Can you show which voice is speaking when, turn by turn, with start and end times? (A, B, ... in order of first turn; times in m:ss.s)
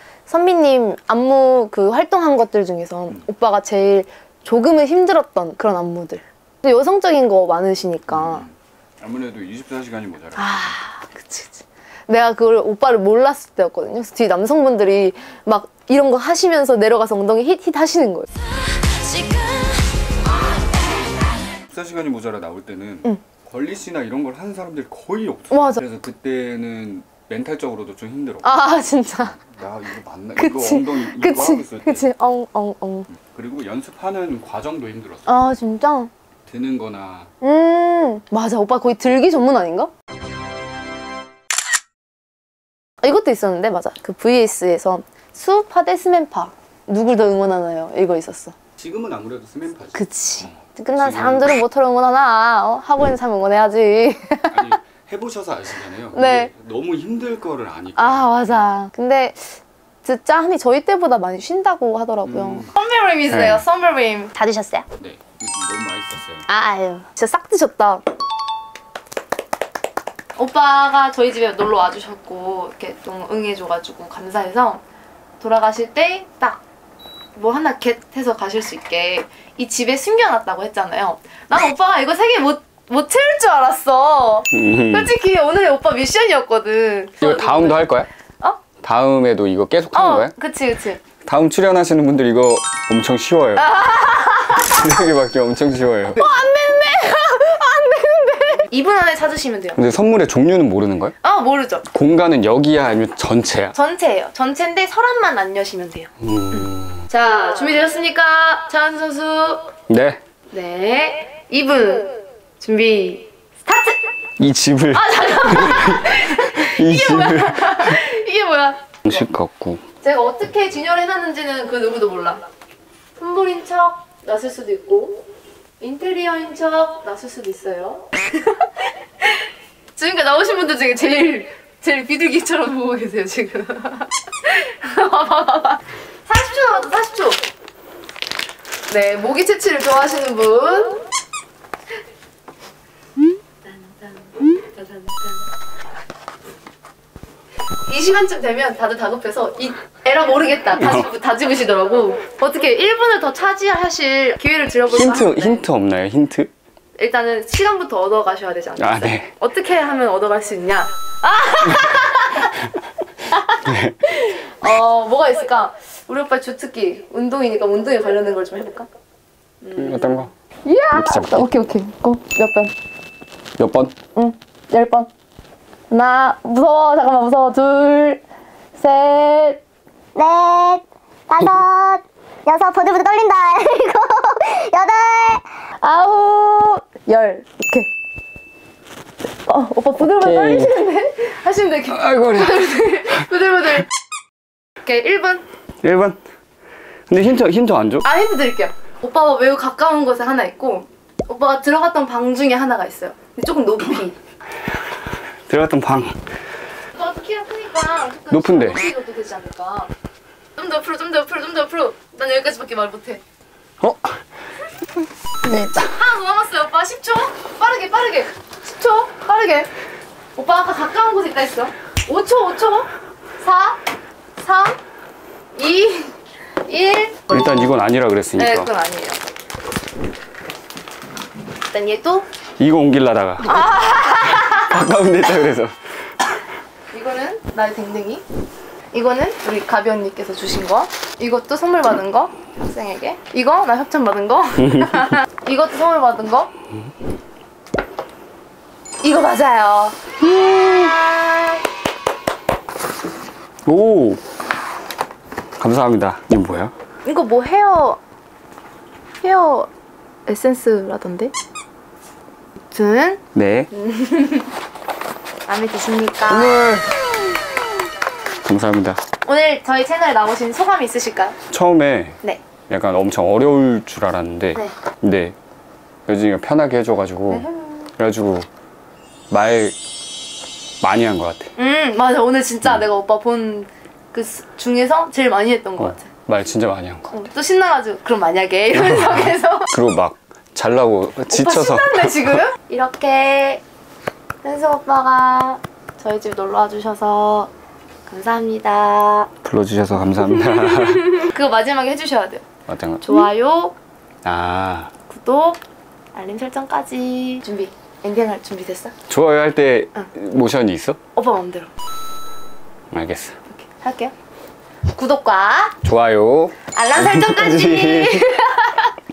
0:00.3-0:08.4 A
0:08.1-0:10.8 B
0:10.3-0:18.3 A
0:21.6-0:28.5 B
0:25.5-0:25.8 A
0:28.4-0:29.4 A
0:29.2-0:32.1 B
0:30.4-0:33.1 A
0:33.2-0:35.3 B
0:35.2-0:36.1 A
0:36.5-0:37.3 B
0:37.4-0:39.9 A
0:43.0-0:48.5 A
0:48.8-0:51.5 B
0:49.9-0:54.8 A
0:54.5-0:58.7 B
0:56.1-0:56.5 A
0:58.0-1:04.8 A
1:02.2-1:02.7 B
1:03.3-1:03.6 B
1:05.0-1:06.5 B
1:06.5-1:08.0 A
1:10.4-1:14.8 A
1:15.4-1:16.6 A
1:17.4-1:27.9 A
1:24.5-1:25.1 B
1:27.2-1:28.1 B
1:28.8-1:30.3 B
1:29.9-1:31.0 A
1:31.2-1:33.8 B
1:33.6-1:34.9 A
1:34.5-1:36.2 B
1:36.2-1:39.8 A
1:39.8-1:41.1 B
1:41.2-1:41.9 A
1:41.9-1:43.8 B
1:43.7-1:49.7 A
1:46.2-1:47.1 B
1:49.9-1:50.2 B
1:50.5-1:54.1 A
1:54.4-1:58.0 B
1:54.9-1:59.2 A
1:59.0-1:59.8 B
2:00.0-2:02.4 A
2:03.2-2:05.2 A
2:05.8-2:17.4 A
2:18.9-2:21.0 A
2:23.6-2:25.4 A
2:27.9-2:35.6 A
2:30.8-2:31.1 B
2:34.9-2:36.5 B
2:37.0-2:42.7 A
2:38.8-2:39.3 B
2:43.3-2:48.9 A
2:43.6-2:44.0 B
2:49.6-2:52.7 A
2:49.7-2:50.3 B
2:50.9-2:51.5 B
2:53.6-2:53.9 B
2:54.1-2:55.1 A
2:55.9-2:58.2 A
2:58.8-2:59.6 A
3:00.2-3:00.8 C
3:00.2-3:00.8 A
3:01.3-3:04.3 A
3:01.4-3:01.9 C
3:02.5-3:05.4 C
3:05.8-3:07.9 A
3:09.4-3:13.9 A
3:10.2-3:10.7 B
3:11.9-3:12.8 B
3:14.8-3:15.4 A
3:15.8-3:16.2 B
3:17.1-3:18.1 B
3:18.0-3:24.2 A
3:25.5-3:26.2 B
3:26.9-3:29.9 A
3:28.3-3:28.8 B
3:30.6-3:33.2 A
3:33.8-3:34.1 B
3:35.5-3:35.8 B
3:35.5-3:39.7 A
3:40.4-3:42.9 A
3:43.4-3:43.8 A
3:44.4-3:44.8 A
3:45.5-3:47.4 A
3:47.3-3:48.7 B
3:48.4-3:49.2 A
3:51.7-3:52.3 A
3:52.6-3:55.7 B
3:53.4-3:54.7 A
3:56.9-3:58.2 A
3:58.9-4:06.5 A
4:04.6-4:05.1 B
4:09.0-4:11.6 A
4:13.6-4:14.2 B
4:15.6-4:16.7 B
4:17.0-4:18.0 A
4:19.2-4:19.7 A
4:20.2-4:21.3 A
4:22.7-4:23.2 A
4:23.3-4:23.7 B
4:23.7-4:24.5 A
4:25.4-4:26.6 A
4:26.3-4:26.9 B
4:28.4-4:29.0 B
4:29.2-4:31.4 A
4:31.5-4:32.2 B
4:32.7-4:35.4 B
4:36.1-4:37.5 B
4:37.3-4:37.9 A
4:38.0-4:38.5 B
4:39.3-4:39.8 B
4:40.8-4:41.5 B
4:41.6-4:46.1 A
4:45.8-4:47.1 B
4:47.1-4:49.7 A
4:48.8-4:52.4 B
4:51.3-4:53.6 A
4:54.4-4:57.5 A
4:58.0-4:59.3 A
4:59.4-5:01.2 B
5:00.3-5:02.4 A
5:02.7-5:03.3 B
5:03.0-5:03.8 A
5:04.2-5:04.9 B
5:05.1-5:05.6 A
5:06.1-5:08.9 A
5:09.1-5:11.0 B
5:11.1-5:11.7 A
5:12.9-5:13.4 B
5:13.5-5:14.1 A
5:14.9-5:15.8 A
5:15.8-5:18.3 B
5:16.7-5:19.0 A